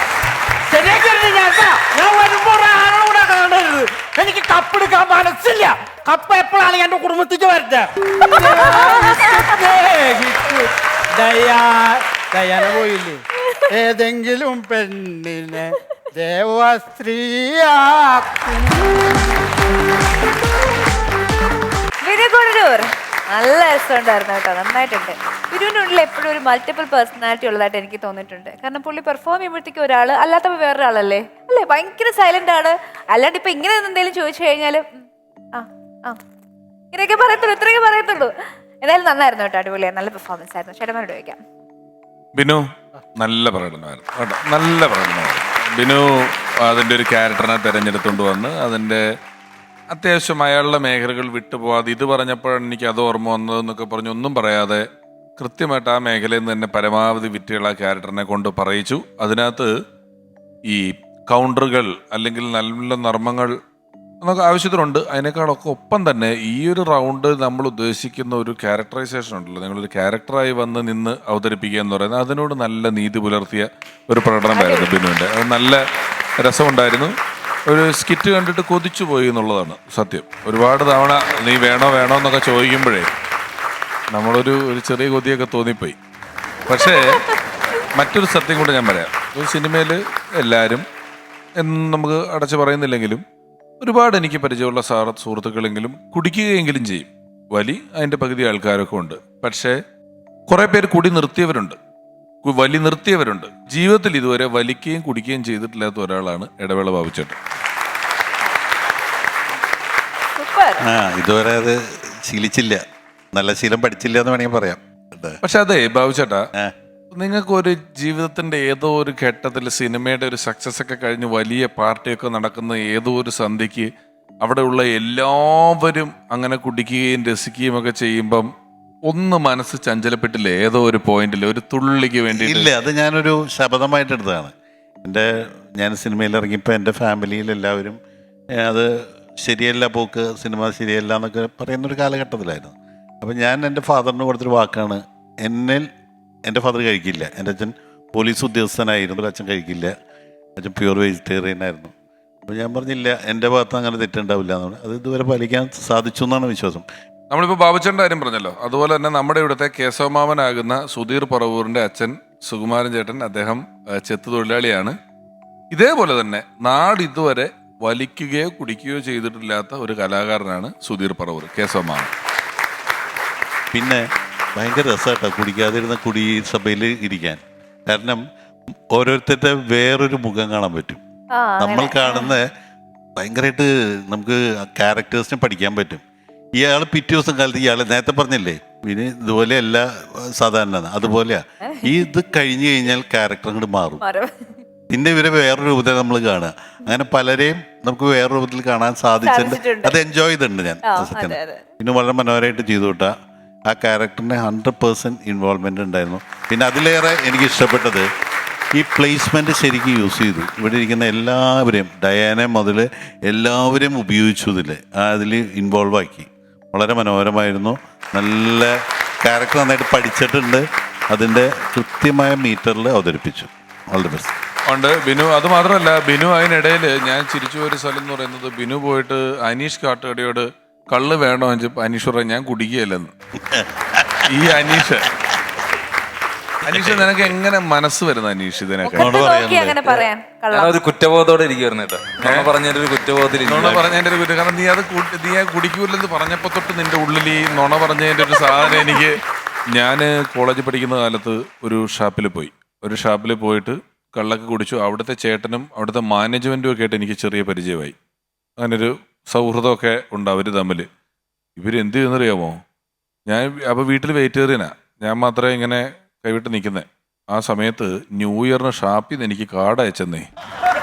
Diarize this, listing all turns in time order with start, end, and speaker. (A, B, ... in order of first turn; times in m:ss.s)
0:00.7-0:19.0 A
0:08.3-0:09.3 B
0:22.0-0:34.9 B
0:35.5-0:36.2 B
0:36.9-0:41.4 B
0:42.4-0:42.6 C
0:43.2-0:49.0 C
0:49.9-0:54.8 C
0:55.4-0:59.7 C
1:00.7-1:03.5 C
1:04.2-1:15.8 C
1:14.6-1:14.9 B
1:16.4-1:17.1 C
1:17.7-1:23.1 C
1:24.1-1:26.0 C
1:26.7-1:27.3 C
1:28.0-1:30.8 C
1:31.6-1:33.2 C
1:33.8-1:39.8 C
1:40.5-1:41.8 C
1:42.4-1:47.4 C
1:50.4-1:50.8 B
1:50.9-1:55.4 D
1:55.4-1:56.4 C
1:57.1-2:03.9 C
2:04.4-2:08.5 C
2:09.1-2:12.7 C
2:12.4-2:14.5 D
2:15.0-2:18.0 D
2:18.5-2:25.9 D
2:26.5-2:29.9 D
2:30.6-2:31.9 D
2:32.5-2:36.9 D
2:37.3-2:44.9 C
2:45.7-2:52.1 C
2:53.7-2:54.0 D
2:54.6-2:58.2 D
2:58.9-3:01.0 D
3:01.3-3:02.3 B
3:01.6-3:02.5 D
3:03.2-3:06.0 D
3:06.6-3:14.0 D
3:11.7-3:12.1 B
3:14.0-3:14.6 B
3:14.9-3:23.1 D
3:19.2-3:20.0 B
3:20.8-3:21.6 B
3:23.7-3:28.1 D
3:28.8-3:44.3 D
3:44.7-3:53.1 C
3:53.4-3:54.3 D
3:54.3-3:55.1 C
3:56.7-3:57.3 D
3:56.7-3:59.2 C
3:58.8-4:00.8 B
3:59.0-3:59.9 D
3:59.8-4:03.9 E
4:02.2-4:02.5 C
4:03.4-4:09.2 C
4:09.7-4:18.0 C
4:18.6-4:20.9 C
4:21.6-4:22.6 C
4:23.3-4:30.3 C